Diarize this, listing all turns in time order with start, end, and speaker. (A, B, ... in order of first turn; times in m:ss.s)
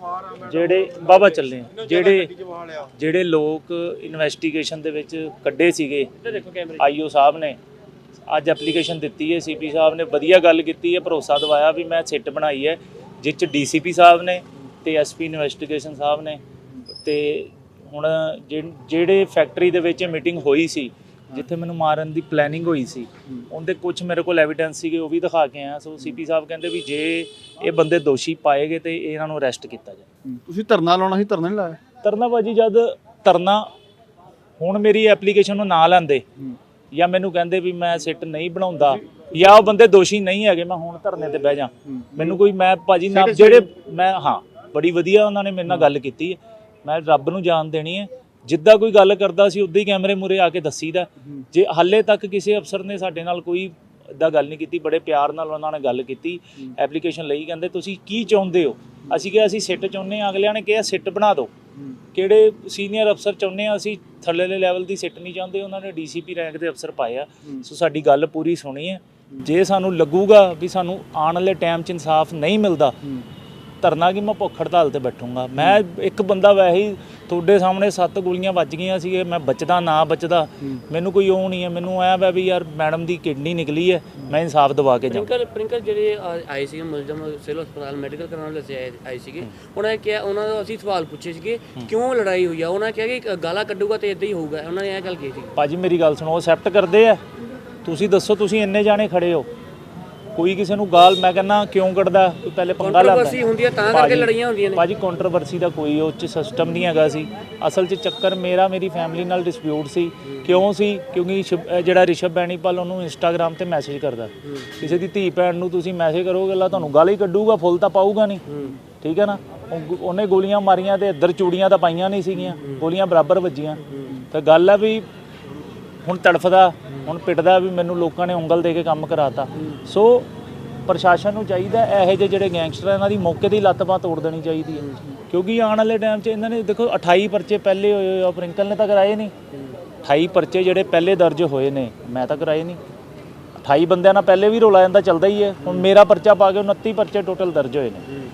0:00.4-0:02.4 A
0:02.9-0:07.6 A
0:06.2-0:06.8 B
0:08.3-0:16.4 A
0:17.0-0:30.1 A
0:30.2-0:31.8 C
0:32.0-0:33.7 A
0:34.6-0:36.2 A
0:36.9-1:01.5 A
0:42.0-0:42.3 C
1:02.1-1:13.0 A
1:13.8-1:25.3 A
1:25.1-1:35.5 B
1:35.6-1:37.2 A
1:37.8-1:39.5 A
1:40.4-1:58.4 A
1:42.8-1:44.8 B
1:50.3-1:50.6 B
1:58.5-1:58.8 C
1:59.0-2:05.0 A
2:03.9-2:04.3 C
2:06.0-2:10.3 A
2:10.9-2:19.3 A
2:20.0-2:22.8 A
2:23.6-2:28.0 A